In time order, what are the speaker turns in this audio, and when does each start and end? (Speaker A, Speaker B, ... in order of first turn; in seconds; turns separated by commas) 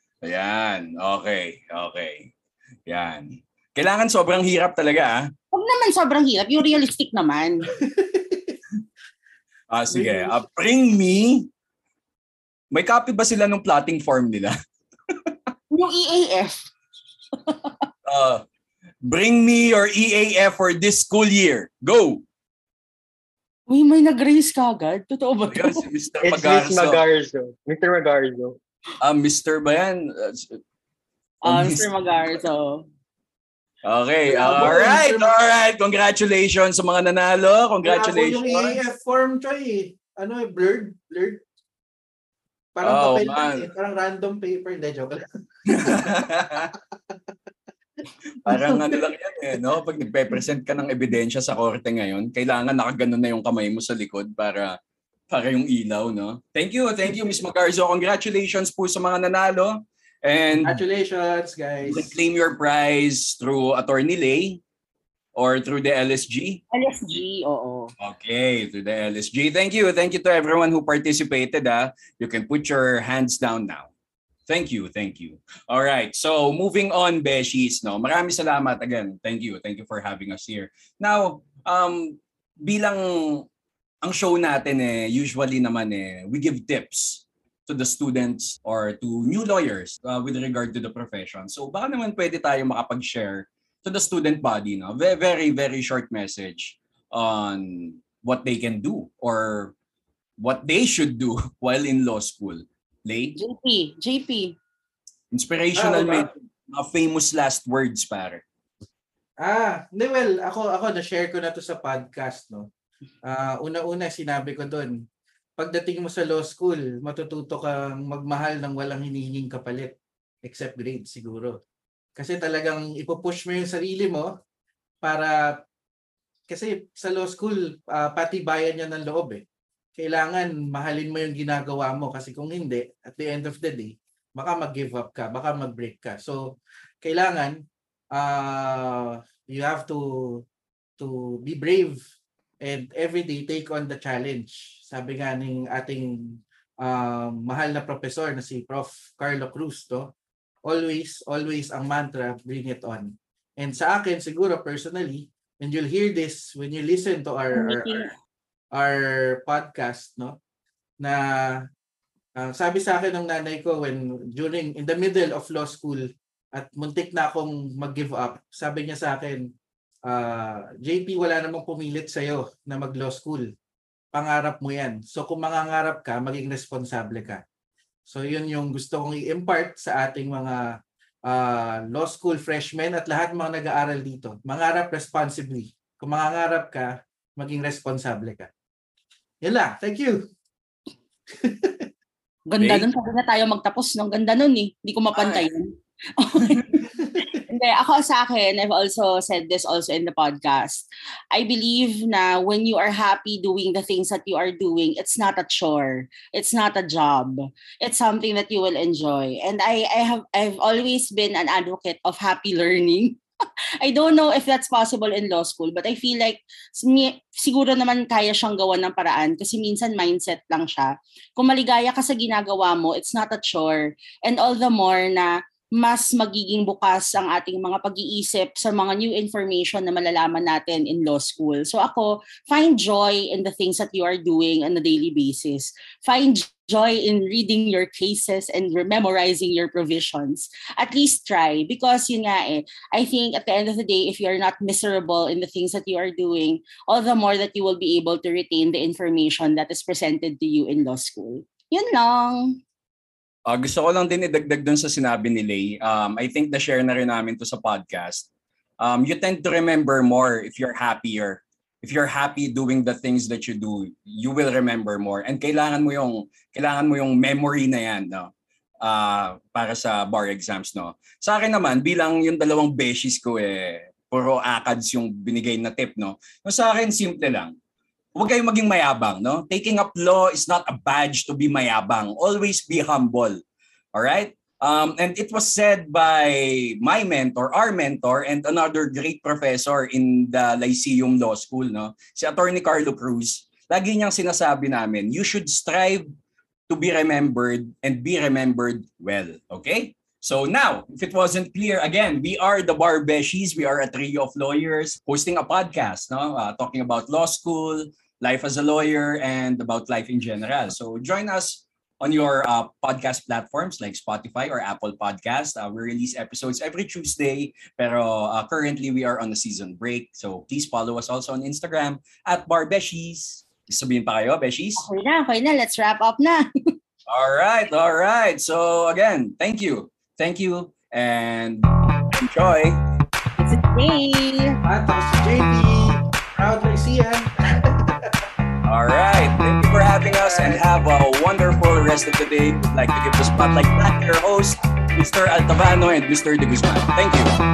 Speaker A: 0.2-2.3, Speaker A: 2.9-5.3, Speaker B: 5.5-7.7, Speaker C: 7.8-8.6, Speaker A: 9.7-11.5, Speaker C: 9.9-10.4, Speaker A: 12.7-14.5, Speaker B: 15.7-16.7, Speaker B: 17.4-17.7, Speaker A: 18.1-18.4, Speaker A: 19.1-22.2, Speaker B: 23.7-25.8, Speaker A: 25.5-27.0, Speaker D: 26.2-28.6, Speaker A: 29.0-30.6, Speaker B: 31.4-32.9, Speaker A: 31.4-31.9, Speaker A: 33.8-38.8, Speaker C: 34.3-35.3, Speaker C: 37.8-41.4, Speaker C: 42.8-46.2, Speaker A: 42.8-43.7, Speaker A: 45.7-46.7, Speaker C: 46.7-47.2, Speaker A: 48.5-54.8, Speaker C: 48.5-49.0, Speaker A: 55.3-60.8, Speaker C: 60.5-62.1, Speaker A: 61.9-64.6, Speaker A: 65.3-66.6, Speaker B: 66.7-67.9, Speaker A: 68.0-73.9, Speaker A: 74.5-83.5, Speaker A: 84.0-99.7, Speaker A: 100.4-103.4, Speaker B: 103.4-104.6, Speaker A: 105.3-108.4, Speaker C: 105.8-106.3, Speaker C: 109.4-112.7, Speaker C: 113.3-115.0, Speaker C: 115.6-119.9, Speaker C: 120.4-121.6, Speaker C: 122.2-124.3, Speaker C: 125.0-125.3, Speaker C: 126.5-129.4, Speaker C: 130.0-136.4, Speaker C: 137.0-137.6, Speaker C: 138.2-140.4, Speaker C: 141.0-142.0, Speaker C: 142.6-150.1, Speaker C: 150.7-158.1, Speaker B: 157.5-158.1, Speaker C: 158.7-160.4, Speaker C: 162.4-166.0, Speaker C: 166.6-169.4, Speaker C: 170.1-173.4, Speaker C: 174.1-177.4, Speaker C: 178.1-180.6, Speaker C: 181.3-188.5, Speaker C: 189.4-190.2, Speaker C: 191.4-191.9, Speaker B: 192.5-196.7, Speaker A: 192.6-192.9, Speaker A: 195.1-195.5, Speaker C: 196.8-197.3, Speaker B: 197.5-213.2, Speaker B: 213.8-252.6, Speaker A: 253.5-258.3, Speaker A: 258.8-268.3, Speaker A: 268.8-277.5, Speaker A: 278.1-283.4, Speaker A: 283.9-296.1, Speaker A: 296.7-324.8, Speaker B: 324.8-326.4, Speaker A: 327.1-332.8, Speaker B: 333.4-334.6, Speaker C: 334.7-338.1, Speaker A: 338.7-347.4, Speaker C: 340.2-340.6